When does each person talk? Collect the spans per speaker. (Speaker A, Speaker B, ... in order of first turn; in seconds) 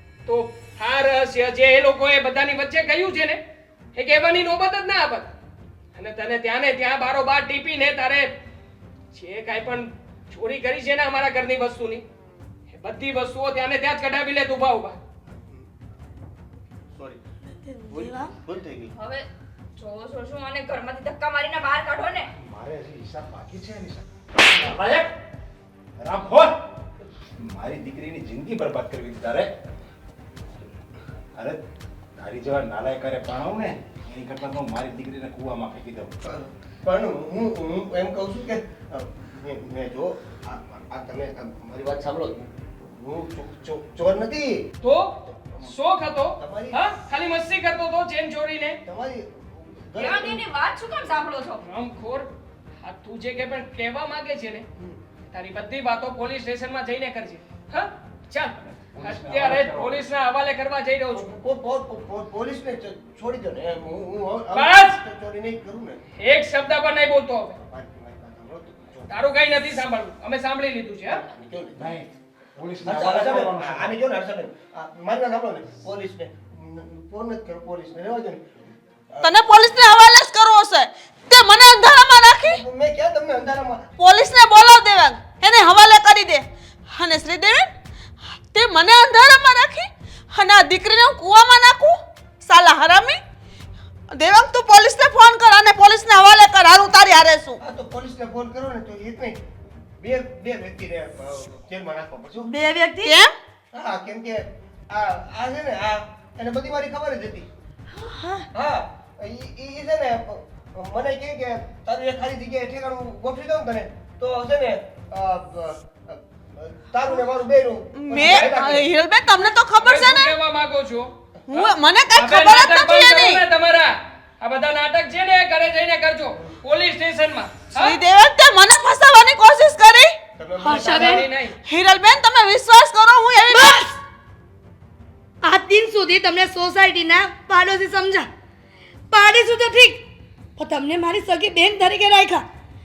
Speaker A: 0.3-3.4, 4.0-5.3, 6.0-8.3, 9.1-12.0, 12.7-15.0, 24.6-25.1, 44.8-48.8, 51.6-52.3, 52.8-54.7, 55.3-61.3, 64.5-65.0, 66.2-67.6, 69.1-71.2, 119.8-128.0, 130.7-131.6
Speaker B: 15.4-15.7, 17.9-18.9, 36.3-44.6, 46.4-46.8, 48.9-50.4, 61.1-66.0, 67.6-69.2, 71.1-71.8, 72.8-79.3, 82.4-83.8, 97.6-99.4, 100.0-102.5, 103.7-107.5, 108.5-118.9, 130.4-131.2
Speaker C: 17.7-18.3, 102.5-103.2, 108.0-108.5, 130.6-131.3, 133.4-134.0, 135.4-138.3, 139.1-140.0, 140.6-142.4
Speaker D: 18.9-22.3, 50.0-51.6
Speaker E: 22.4-24.8, 26.0-26.5, 27.4-29.5, 31.4-31.6, 32.2-36.1, 58.7-60.0, 71.8-74.0
Speaker F: 79.2-82.6, 84.0-87.7, 88.5-93.2, 94.1-97.6, 103.1-103.3, 117.9-120.3, 121.5-123.4, 127.8-130.1, 131.7-133.8